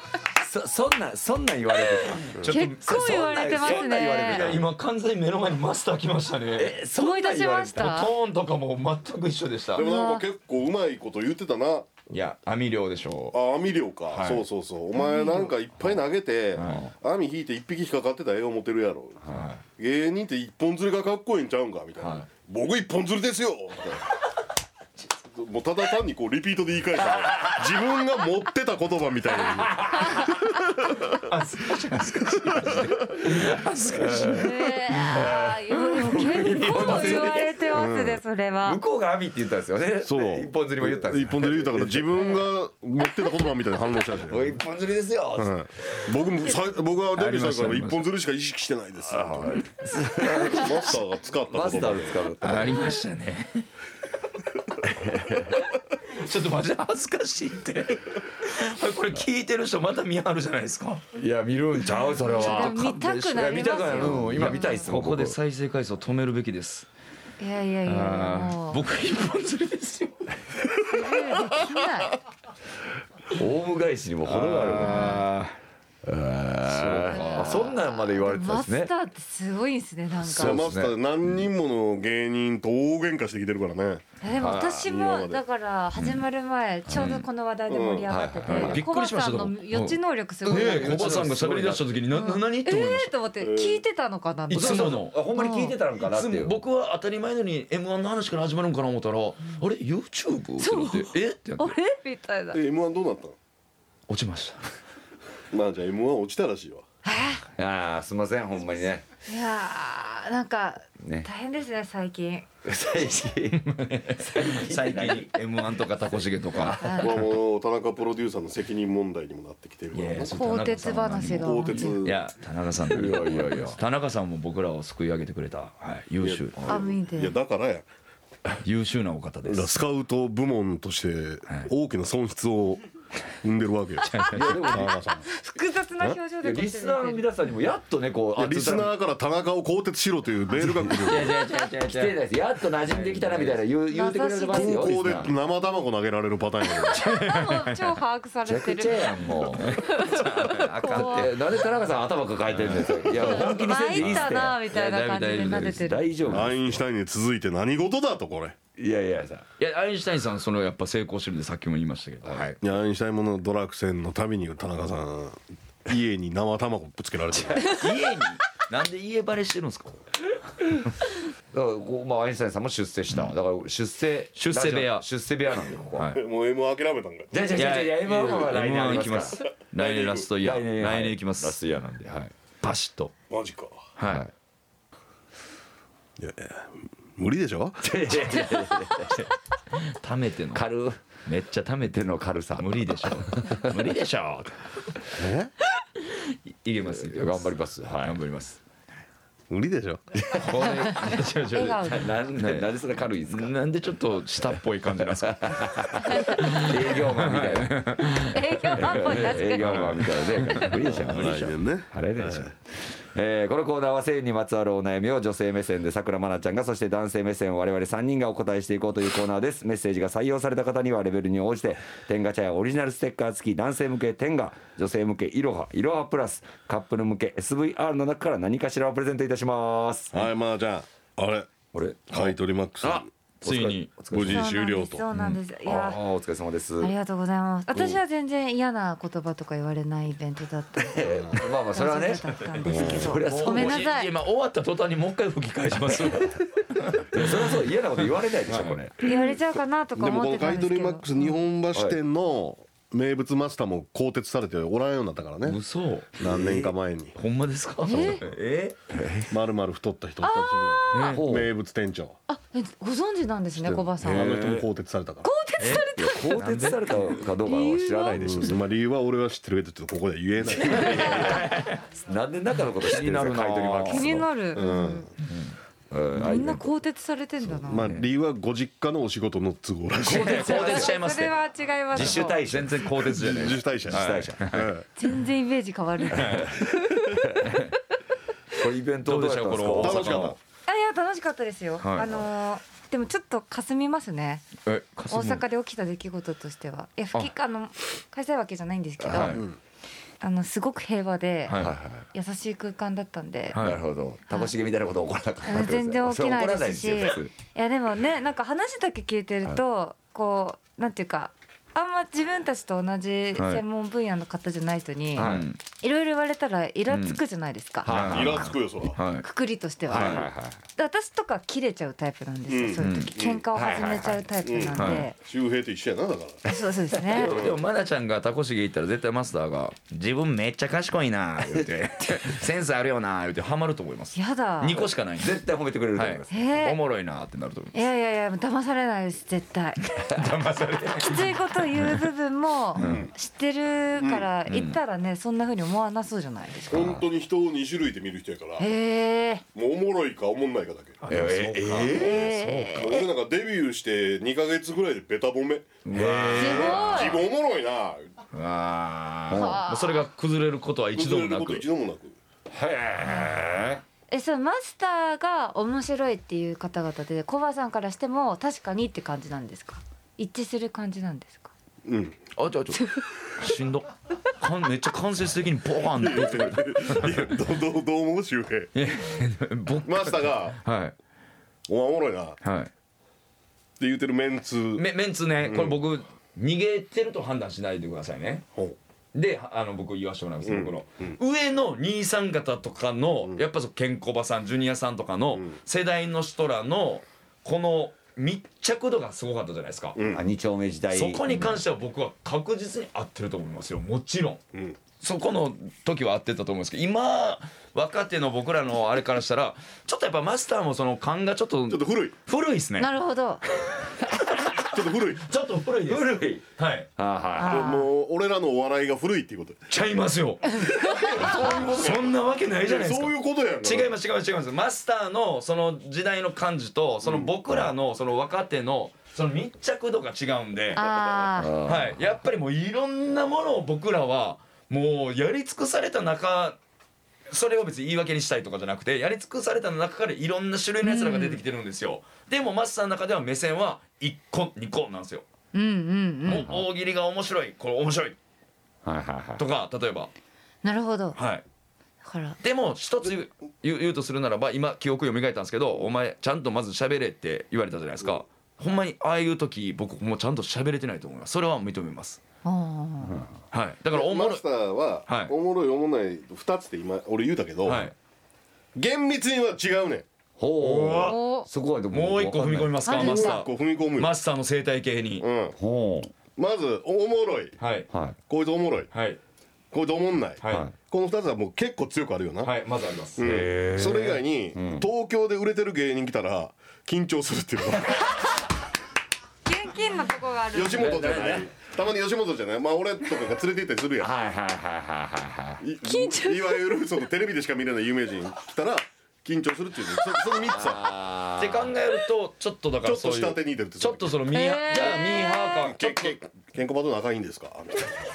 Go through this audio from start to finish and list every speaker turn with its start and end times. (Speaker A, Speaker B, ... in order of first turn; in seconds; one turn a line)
Speaker A: 0.3-4.6
Speaker B: 2.1-6.8
Speaker C: 2.4-4.5
Speaker A: 6.6-7.9
Speaker C: 6.9-8.1
Speaker B: 7.8-9.9
Speaker D: 9.7-11.9
Speaker C: 9.8-10.2
Speaker B: 12.1-13.4
Speaker D: 13.3-24.1
Speaker B: 14.1-14.4
Speaker C: 15.0-15.5
Speaker B: 16.6-16.8
Speaker A: 16.6-16.9
Speaker A: 19.3-19.6
Speaker D: 25.2-31.2
Speaker A: 29.6-30.2
Speaker B: 31.1-35.3
Speaker D: 32.3-33.0
Speaker A: 33.9-37.8
Speaker C: 34.4-38.8
Speaker B: 36.2-37.2
Speaker D: 37.7-38.2
Speaker A: 38.6-42.4
Speaker D: 40.0-44.6
Speaker A: 44.3-46.1
Speaker D: 45.4-49.6
Speaker B: 47.1-48.1
Speaker A: 49.1-51.0
Speaker D: 50.4-52.3
Speaker A: 51.5-52.8
Speaker B: 52.4-53.7
Speaker A: 54.9-55.6
Speaker B: 55.4-61.1
Speaker A: 61.2-62.8
Speaker B: 62.2-66.9
Speaker C: 62.2-64.9
Speaker A: 63.3-65.4
Speaker C: 67.4-68.8
Speaker B: 67.8-70.4
Speaker C: 70.8-72.2
Speaker A: 73.3-75.3
Speaker B: 74.2-75.6
Speaker C: 74.8-75.3
Speaker A: 76.0-78.9
Speaker C: 77.0-80.6
Speaker D: 77.2-77.6
Speaker A: 80.2-81.3
Speaker D: 80.3-84.0
Speaker C: 84.2-91.2
Speaker A: 84.4-84.9
Speaker D: 84.8-85.4
Speaker B: 86.0-86.2
Speaker B: 86.9-87.3
Speaker D: 87.7-88.1
Speaker A: 88.1-88.8
Speaker B: 88.5-93.1
Speaker A: 90.5-91.8
Speaker C: 92.1-95.8
Speaker D: 93.4-93.8
Speaker B: 94.5-95.2
Speaker A: 94.5-96.6
Speaker B: 96.0-101.8
Speaker C: 100.6-102.6
Speaker D: 102.5-103.4
Speaker B: 104.1-104.7
Speaker D: 105.5-106.8
Speaker C: 107.0-107.5
Speaker A: 107.6-109.0
Speaker C: 109.3-112.5
Speaker A: 111.0-111.3
Speaker A: 112.7-113.7
Speaker B: 113.5-117.1
Speaker A: 114.2-115.3
Speaker A: 116.5-117.0
Speaker C: 116.6-117.2
Speaker D: 117.0-120.3
Speaker B: 119.9-126.8
Speaker C: 120.3-122.0
Speaker D: 121.4-122.2
Speaker A: 122.9-123.8
Speaker D: 126.2-127.9
Speaker C: 126.7-127.4
Speaker B: 128.6-129.8
Speaker D: 129.5-132.8
Speaker D: 133.4-135.2
Speaker B: 134.1-134.5
Speaker C: 134.2-137.2
Speaker A: 134.3-135.2
Speaker A: 136.4-138.9
Speaker D: 138.4-141.3
Speaker B: 140.6-142.2
Speaker A: 141.1-145.3
Speaker B: 142.9-143.6
Speaker C: 143.9-145.1
Speaker D: 144.5-147.0
Speaker C: 146.7-151.3
Speaker B: 146.9-148.0
Speaker A: 148.5-149.8
Speaker B: 149.6-151.3
Speaker A: 150.9-154.6
Speaker B: 152.5-156.5
Speaker C: 153.1-156.0
Speaker A: 155.8-156.8
Speaker D: 156.3-158.6
Speaker A: 158.8-159.5
Speaker B: 159.6-162.5
Speaker A: 162.2-162.6
Speaker D: 162.6-167.8
Speaker B: 167.6-170.0
Speaker A: 171.5-176.1
Speaker B: 174.4-175.1
Speaker B: 175.9-176.2
Speaker D: 176.1-177.5
Speaker A: 177.3-179.4
Speaker B: 177.5-181.6
Speaker D: 179.8-180.3
Speaker A: 180.4-182.3
Speaker B: 182.6-183.1
Speaker D: 183.3-183.8
Speaker B: 184.0-184.3
Speaker D: 186.2-188.2
Speaker A: 187.8-189.3
Speaker B: 189.8-190.7
Speaker A: 190.5-191.1
Speaker B: 191.2-192.1
Speaker A: 191.9-193.8
Speaker B: 192.6-194.6
Speaker D: 195.2-195.5
Speaker B: 196.3-197.5
Speaker A: 196.8-198.2
Speaker B: 198.0-198.6
Speaker D: 199.5-200.0
Speaker A: 200.2-200.9
Speaker B: 200.4-202.7
Speaker C: 200.6-202.1
Speaker A: 201.8-203.5
Speaker B: 203.3-211.5
Speaker A: 205.4-207.8
Speaker C: 206.1-206.6
Speaker C: 208.1-210.6
Speaker A: 208.7-230.2
Speaker D: 211.0-212.5
Speaker D: 230.1-231.5
Speaker A: 231.7-234.5
Speaker D: 232.1-233.1
Speaker B: 233.4-233.9
Speaker D: 234.1-235.1
Speaker C: 234.2-236.0
Speaker B: 235.1-235.4
Speaker A: 235.7-236.9
Speaker C: 236.8-244.1
Speaker A: 240.8-243.9
Speaker D: 242.7-243.2
Speaker B: 243.2-247.6
Speaker A: 247.1-249.0
Speaker B: 248.5-249.1
Speaker C: 249.0-251.2
Speaker D: 250.0-255.6
Speaker B: 255.4-258.8
Speaker D: 256.2-257.1
Speaker C: 257.8-258.2
Speaker A: 258.9-259.3
Speaker D: 259.3-262.2
Speaker C: 260.2-261.2
Speaker B: 260.9-261.2
Speaker A: 261.0-261.5
Speaker C: 262.3-264.3
Speaker D: 263.6-265.3
Speaker B: 264.1-264.6
Speaker C: 265.2-266.7
Speaker B: 265.6-267.2
Speaker A: 266.0-268.6
Speaker C: 267.3-268.5
Speaker D: 268.2-271.3
Speaker A: 270.5-274.3
Speaker B: 270.7-271.8
Speaker C: 270.9-271.4
Speaker B: 272.8-274.3
Speaker C: 273.9-275.1
Speaker D: 274.6-275.1
Speaker A: 275.3-276.7
Speaker C: 276.2-277.9
Speaker D: 277.6-280.5
Speaker B: 280.0-281.4
Speaker A: 280.1-280.9
Speaker C: 280.2-282.4
Speaker B: 281.9-284.8
Speaker A: 281.9-284.5
Speaker D: 283.0-284.8
Speaker C: 285.0-287.6
Speaker B: 286.1-286.6
Speaker A: 287.2-287.5
Speaker B: 287.4-287.7
Speaker A: 288.5-290.4
Speaker B: 289.0-290.4
Speaker D: 289.8-290.4
Speaker C: 290.7-294.5
Speaker B: 291.8-292.3
Speaker B: 294.6-295.4
Speaker C: 295.1-299.4
Speaker A: 299.0-299.4
Speaker B: 299.1-299.4
Speaker C: 300.2-301.6
Speaker B: 301.5-301.8
Speaker A: 301.5-302.1
Speaker C: 302.1-303.6
Speaker B: 303.5-303.8
Speaker A: 303.6-307.3
Speaker C: 305.4-317.9
Speaker B: 313.4-313.6
Speaker A: 315.2-315.5
Speaker B: 315.2-315.6
Speaker B: 316.9-317.2
Speaker A: 317.8-318.5
Speaker B: 317.9-319.3
Speaker D: 318.0-319.0
Speaker C: 319.2-325.2
Speaker B: 319.9-320.3
Speaker A: 319.9-320.6
Speaker D: 322.5-323.5
Speaker B: 322.8-323.1
Speaker A: 323.5-324.2
Speaker D: 324.4-326.5
Speaker B: 324.8-325.1
Speaker C: 326.5-327.4
Speaker B: 327.0-337.8
Speaker D: 327.1-327.6
Speaker C: 334.1-334.9
Speaker A: 335.2-336.3
Speaker C: 336.3-336.8
Speaker C: 337.7-340.0
Speaker B: 340.0-342.1
Speaker C: 341.0-347.0
Speaker B: 342.8-343.0
Speaker D: 342.8-343.1
Speaker D: 344.0-344.3
Speaker B: 344.5-344.8
Speaker D: 346.7-348.7
Speaker C: 348.6-349.4
Speaker D: 349.5-351.0
Speaker B: 351.0-352.3
Speaker A: 351.1-352.8
Speaker C: 351.9-353.1
Speaker D: 352.7-358.1
Speaker A: 355.9-356.8
Speaker B: 355.9-357.2
Speaker C: 356.3-357.2
Speaker B: 358.3-361.6
Speaker A: 359.3-359.6
Speaker C: 359.3-360.1
Speaker D: 360.9-362.2
Speaker A: 362.5-363.8
Speaker C: 364.1-371.5
Speaker D: 371.9-372.2
Speaker B: 372.4-377.3
Speaker C: 372.8-373.0
Speaker D: 375.9-378.7
Speaker B: 378.8-380.9
Speaker D: 379.8-380.6
Speaker D: 381.7-382.4
Speaker B: 382.4-382.7
Speaker D: 383.8-384.9
Speaker B: 384.8-388.5
Speaker D: 385.4-385.8
Speaker B: 389.1-400.0
Speaker D: 390.4-391.2
Speaker D: 399.9-400.2
Speaker A: 400.1-401.3
Speaker B: 400.9-404.4
Speaker C: 401.3-401.6
Speaker B: 405.0-412.9
Speaker D: 411.7-412.1
Speaker C: 412.8-413.4
Speaker B: 413.6-416.9
Speaker D: 414.6-415.2
Speaker A: 415.9-416.4
Speaker A: 417.0-417.8
Speaker C: 417.4-417.9
Speaker D: 417.4-419.7
Speaker B: 419.7-431.1
Speaker C: 420.6-421.6
Speaker D: 420.7-423.9
Speaker D: 427.0-427.3
Speaker C: 430.7-431.6
Speaker A: 431.4-432.0
Speaker B: 431.6-436.6
Speaker B: 437.3-445.2
Speaker C: 440.8-441.4
Speaker C: 445.5-446.5
Speaker B: 446.2-448.2
Speaker A: 446.3-446.7
Speaker A: 448.9-449.4
Speaker B: 449.4-450.1
Speaker C: 450.6-451.2
Speaker B: 451.1-451.4
Speaker C: 452.0-452.4
Speaker B: 452.4-462.2
Speaker C: 462.4-463.2
Speaker B: 463.5-464.4
Speaker D: 463.9-467.9
Speaker B: 465.1-465.3
Speaker B: 467.6-467.9
Speaker D: 468.8-470.1
Speaker A: 470.4-472.8
Speaker B: 470.6-471.2
Speaker C: 471.1-471.5
Speaker B: 471.9-475.3
Speaker C: 472.9-473.4
Speaker D: 472.9-474.1
Speaker D: 475.2-475.6
Speaker A: 475.6-476.1
Speaker D: 476.4-477.6
Speaker B: 477.6-477.9
Speaker A: 477.9-478.2
Speaker D: 478.3-478.9
Speaker B: 478.9-479.2
Speaker D: 479.7-482.5
Speaker B: 480.4-480.7
Speaker A: 480.5-480.7
Speaker B: 482.4-483.4
Speaker D: 483.2-488.1
Speaker A: 483.2-484.9
Speaker C: 489.4-491.4
Speaker D: 490.5-494.1
Speaker A: 490.8-491.4
Speaker A: 494.0-495.6
Speaker D: 495.6-500.9
Speaker C: 495.8-496.8
Speaker A: 500.4-501.7
Speaker B: 501.4-506.2
Speaker D: 502.8-504.2
Speaker C: 504.3-505.8
Speaker D: 505.7-508.0